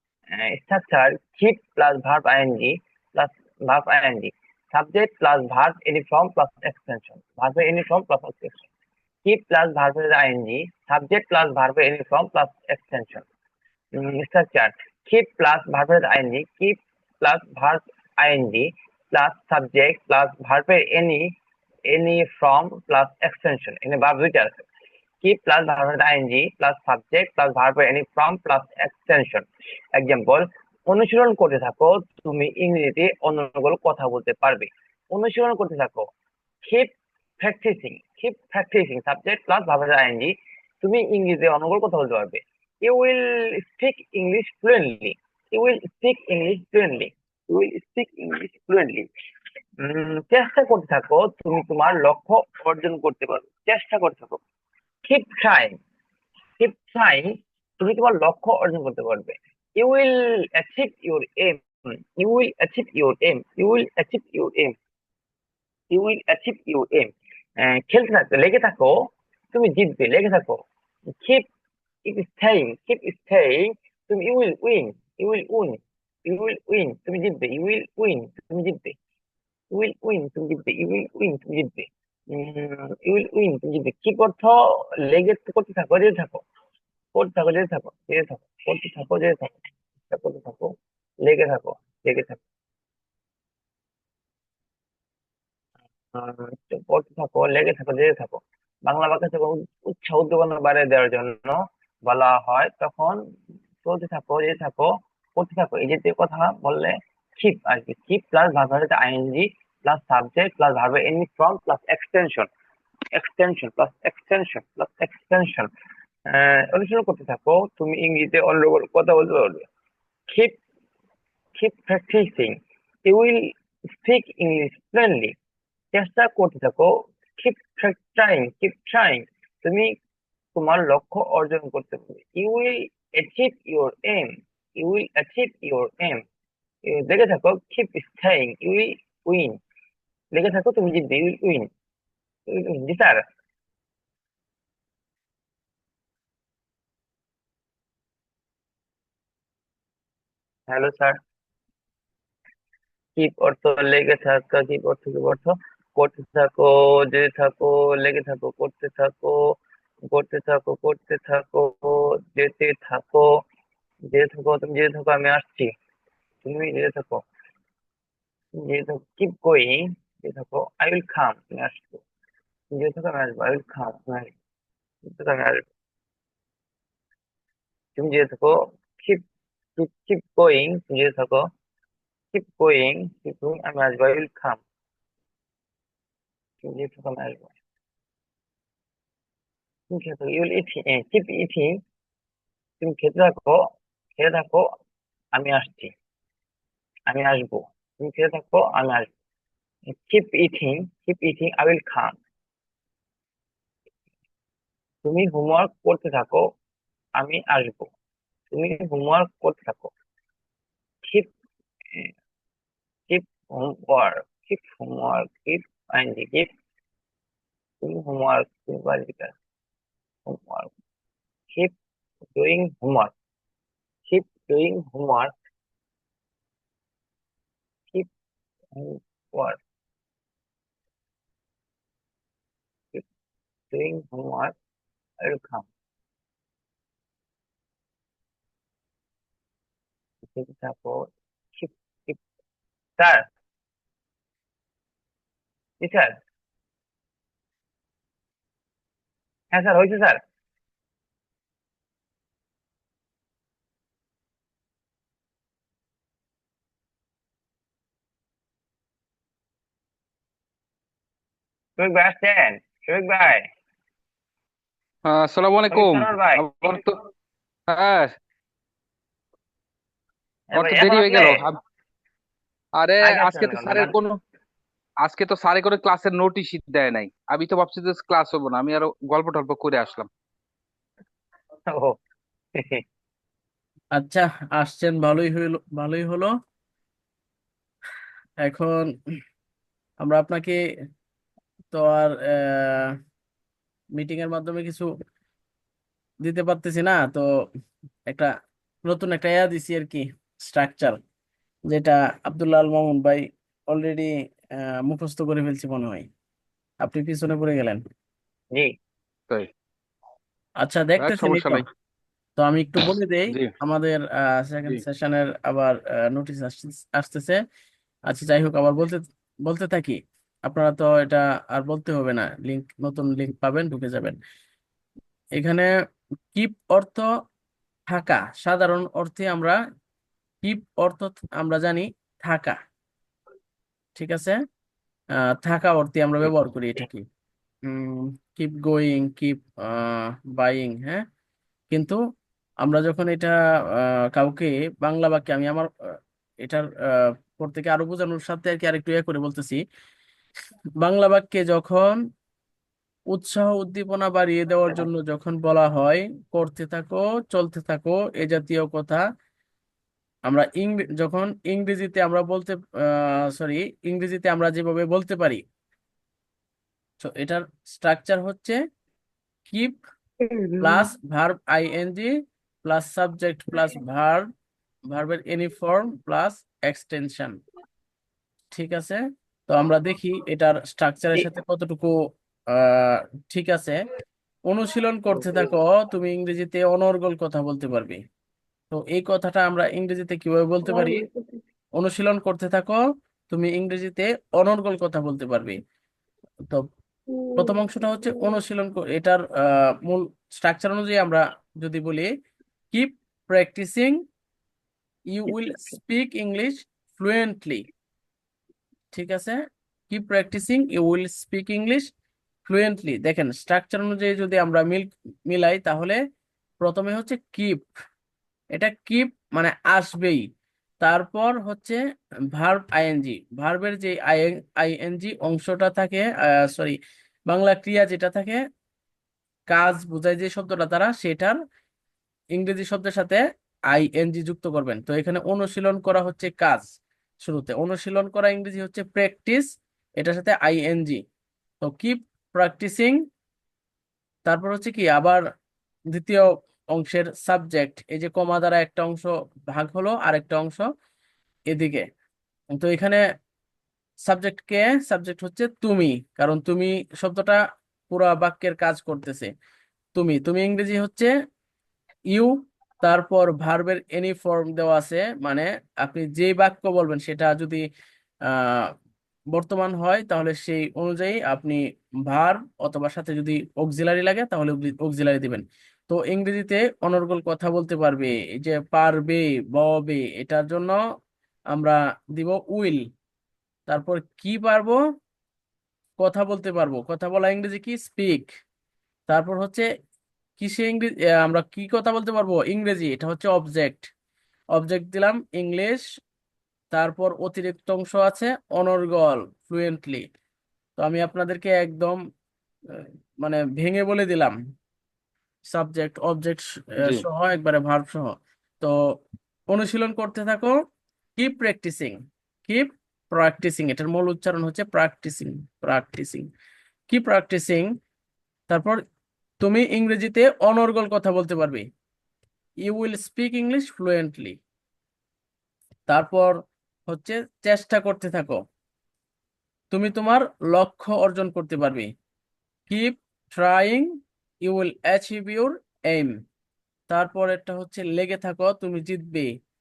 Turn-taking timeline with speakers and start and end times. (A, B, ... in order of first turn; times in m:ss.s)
0:00.3-0:08.7 A
0:09.2-0:13.2 A
0:13.9-0:21.3 A
0:21.9-0:24.6 A
0:25.2-0:36.1 A
0:36.6-0:49.1 A
0:49.8-0:54.4 A
0:55.0-0:55.7 A
0:56.6-0:57.3 A
0:57.8-1:04.8 A
1:05.9-1:08.9 A
1:09.5-1:10.6 A
1:11.2-1:11.4 A
1:12.0-1:18.9 A
1:19.7-1:26.4 A
1:27.1-1:30.7 A
1:31.2-1:32.4 A
1:36.1-1:43.2 A
1:43.8-1:52.5 A
1:53.1-1:55.7 A
1:56.3-1:59.7 A
2:00.3-2:00.6 A
2:01.6-2:02.5 A
2:03.0-2:05.3 A
2:05.9-2:09.9 A
2:10.5-2:16.2 A
2:16.8-2:19.5 A
2:20.3-2:21.7 A
2:22.5-2:23.2 A
2:30.7-2:31.2 A
2:33.2-2:39.6 A
2:40.1-2:43.2 A
2:44.1-2:45.7 A
2:46.4-2:47.2 A
2:48.6-2:52.0 A
2:52.7-2:54.3 A
2:55.1-2:55.6 A
2:58.0-2:59.2 A
2:59.8-3:01.4 A
3:02.3-3:04.6 A
3:06.6-3:07.5 A
3:09.9-3:11.7 A
3:12.8-3:13.6 A
3:14.2-3:14.6 A
3:15.4-3:15.9 A
3:17.1-3:19.1 A
3:19.9-3:22.1 A
3:25.0-3:26.4 A
3:27.2-3:27.9 A
3:28.5-3:29.9 A
3:33.1-3:36.5 A
3:37.8-3:39.3 A
3:40.3-3:40.7 A
3:42.4-3:43.1 A
3:44.1-3:45.3 A
3:48.7-3:49.6 A
3:53.7-3:54.5 A
3:55.2-3:55.7 A
4:00.3-4:02.2 A
4:03.0-4:03.2 A
4:05.8-4:06.1 A
4:09.5-4:10.2 A
4:21.8-4:23.5 A
4:25.0-4:27.0 B
4:25.7-4:26.6 A
4:27.7-4:28.1 B
4:30.5-4:31.4 A
4:30.6-4:31.6 B
4:32.8-4:34.2 B
4:33.0-4:33.9 A
4:35.0-4:40.1 B
4:41.7-4:42.0 A
4:43.9-4:46.3 C
4:48.4-4:48.9 C
4:50.0-4:50.6 C
4:51.7-4:53.0 C
4:54.0-4:54.9 C
4:56.2-4:57.2 C
4:58.8-5:01.0 C
5:01.7-5:06.1 C
5:06.8-5:07.8 C
5:10.6-5:11.6 C
5:11.0-5:11.6 B
5:12.4-5:17.4 C
5:18.1-5:24.2 C
5:25.4-5:25.7 C
5:26.3-5:27.0 C
5:27.9-5:29.6 C
5:30.4-5:32.6 C
5:34.0-5:34.4 C
5:35.2-5:37.0 C
5:37.7-5:41.0 C
5:41.7-5:42.0 C
5:42.6-5:45.7 C
5:46.4-5:49.6 C
5:50.8-5:52.0 C
5:53.1-5:59.0 C
6:00.3-6:05.4 C
6:07.0-6:08.6 C
6:09.5-6:09.8 C
6:10.2-6:10.9 A
6:10.6-6:12.1 C
6:12.6-6:14.2 C
6:14.9-6:17.4 C
6:18.5-6:21.9 C
6:22.5-6:23.8 C
6:24.5-6:28.0 C
6:25.2-6:25.5 A
6:28.7-6:31.0 C
6:30.6-6:31.3 A
6:31.8-6:35.6 C
6:37.2-6:37.5 A
6:37.4-6:42.1 C
6:42.7-6:44.0 C
6:45.1-6:47.7 C
6:48.9-6:49.4 C
6:49.9-6:51.9 C
6:52.4-6:56.0 C
6:56.6-6:57.7 C
6:58.5-7:00.2 C
7:00.8-7:01.8 C
7:02.3-7:06.8 C
7:07.3-7:08.4 C
7:09.5-7:11.4 C
7:12.4-7:13.2 C
7:13.7-7:16.6 C
7:17.2-7:19.5 C
7:20.0-7:21.0 C
7:21.6-7:23.0 C
7:24.2-7:25.2 C
7:25.9-7:30.6 C
7:31.5-7:31.8 C
7:32.5-7:33.0 C
7:34.1-7:39.3 C
7:39.9-7:41.1 C
7:42.1-7:47.6 C
7:48.3-7:48.7 C
7:49.3-8:00.8 C
8:01.5-8:02.8 C
8:03.7-8:04.8 C
8:06.0-8:08.3 C
8:09.1-8:09.6 C
8:10.4-8:13.9 C
8:14.5-8:15.8 C
8:16.7-8:20.1 C
8:20.8-8:22.0 C
8:22.7-8:24.4 C
8:25.5-8:28.7 C
8:29.5-8:30.6 C
8:31.2-8:32.0 C
8:32.5-8:36.3 C
8:36.9-8:37.7 C
8:38.5-8:38.8 C
8:39.4-8:41.6 C
8:42.6-8:44.4 C
8:45.9-8:46.3 C
8:46.9-8:48.4 C
8:49.7-8:51.9 C
8:52.7-8:53.9 C
8:54.4-8:56.1 C
8:56.9-8:59.3 C